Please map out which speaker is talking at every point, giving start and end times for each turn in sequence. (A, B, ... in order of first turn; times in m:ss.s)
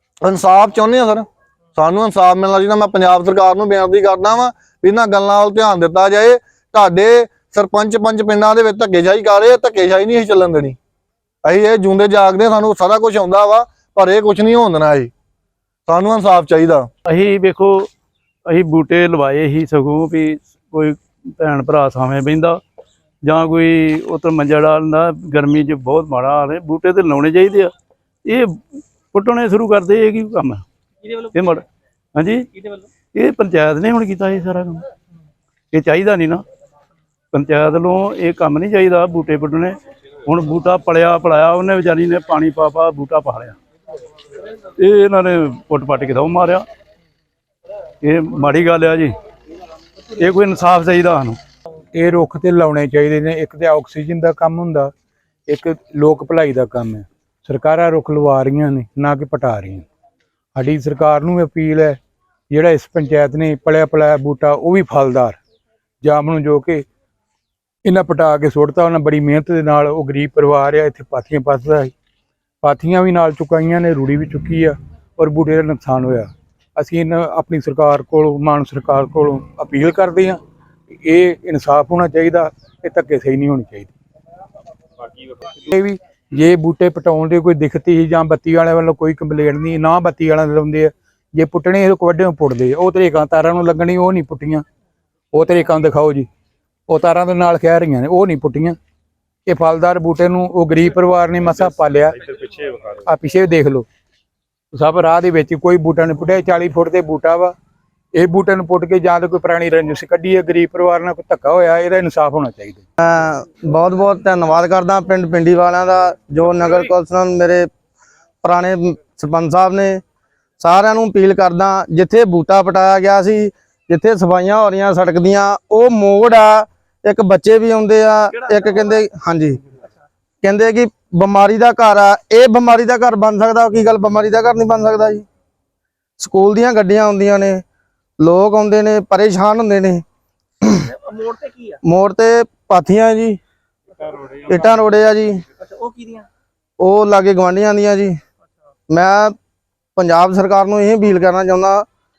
0:00.2-0:10.8 A
0:11.4-0:15.1 A
0:15.9-0:16.9 A
0:17.1-0:17.7 B
0:18.5-0:22.6 B
0:23.2-0:27.7 B
0:29.1-0:30.6 B
0:31.0-0:31.6 C
0:32.1-0:32.5 B
0:32.5-0:32.9 C
0:33.1-0:34.8 B
0:35.7-0:36.4 B
0:37.3-0:39.7 B
0:40.2-0:43.6 B
0:44.8-0:46.6 B
0:48.0-0:49.1 B
0:50.2-0:51.4 B
0:51.9-0:54.9 D
0:55.5-0:59.8 D
1:00.5-1:02.0 D
1:02.5-1:05.4 D
1:06.0-1:06.8 D
1:07.8-1:11.9 D
1:12.6-1:20.4 D
1:21.0-1:23.9 D
1:25.6-1:34.6 D
1:35.3-1:36.3 D
1:36.9-1:38.8 D
1:39.4-1:42.5 D
1:43.0-1:43.8 D
1:44.7-1:47.5 D
1:48.1-1:52.8 D
1:53.0-1:57.7 E
1:58.4-2:00.0 E
2:00.6-2:09.6 E
2:08.3-2:09.0 C
2:10.4-2:15.2 E
2:16.2-2:17.6 E
2:18.2-2:20.0 E
2:20.8-2:21.8 C
2:21.8-2:23.4 E
2:24.5-2:25.4 E
2:25.6-2:26.3 C
2:26.8-2:28.2 E
2:28.9-2:29.4 E
2:30.0-2:31.8 E